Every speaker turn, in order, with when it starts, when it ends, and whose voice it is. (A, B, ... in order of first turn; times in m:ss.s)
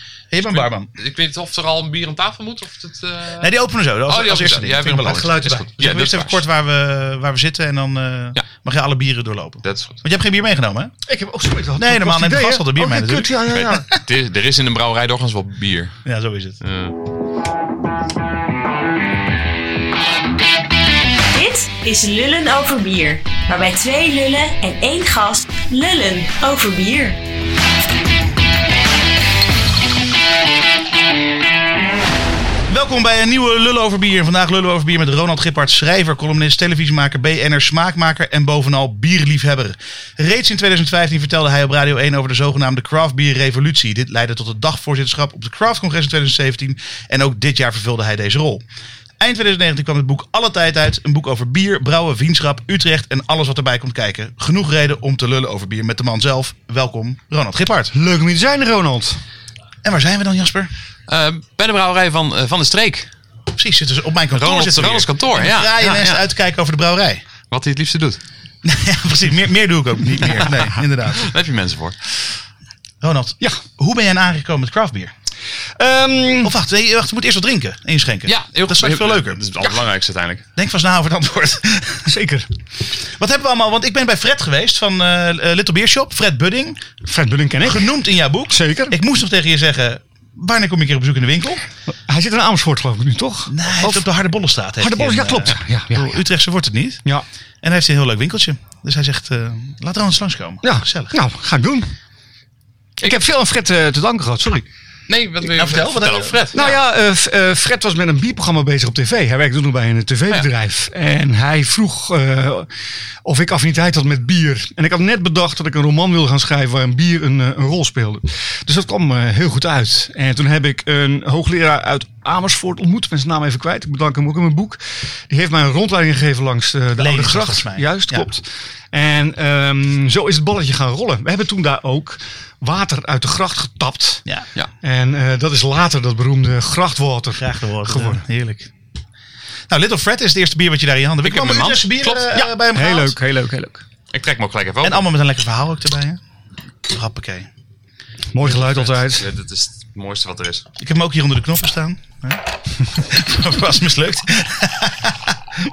0:00.3-0:00.9 A
0:00.5-0:03.5 B
0:03.4-0:10.9 A
0:04.1-0:06.4 B
0:05.0-0:05.7 C
0:09.6-0:10.0 B
0:11.1-0:13.9 C
0:11.8-0:13.8 A
0:13.5-0:15.9 B
0:16.0-0:16.6 A
0:16.6-0:16.9 B
0:21.3-0:27.2 D
0:32.7-0:48.6 A
0:49.2-0:57.9 A
0:57.9-0:59.2 C
0:59.8-1:00.7 A
1:01.1-1:03.1 B
1:03.5-1:07.2 A
1:04.3-1:06.2 B
1:07.5-1:08.2 B
1:08.6-1:11.3 A
1:11.2-1:12.2 B
1:13.0-1:15.1 A
1:15.8-1:16.5 C
1:16.4-1:19.4 A
1:18.3-1:20.4 B
1:20.6-1:22.1 A
1:22.1-1:22.5 C
1:23.2-1:26.8 A
1:27.0-1:27.9 C
1:27.6-1:31.6 A
1:28.5-1:29.0 C
1:32.1-1:34.1 C
1:33.5-1:37.0 A
1:34.8-1:36.2 C
1:37.6-1:41.2 A
1:40.6-1:41.9 C
1:43.0-1:44.7 C
1:45.1-1:46.8 B
1:45.4-1:46.4 A
1:46.5-1:52.7 C
1:53.2-2:14.2 C
2:07.0-2:08.3 A
2:14.8-2:18.2 C
2:17.3-2:18.7 A
2:19.7-2:23.2 A
2:21.2-2:22.3 B
2:22.3-2:23.8 C
2:24.1-2:25.0 B
2:24.8-2:26.2 A
2:26.9-2:27.5 A
2:28.3-2:29.3 C
2:28.4-2:30.6 B
2:30.8-2:32.4 A
2:33.0-2:35.3 A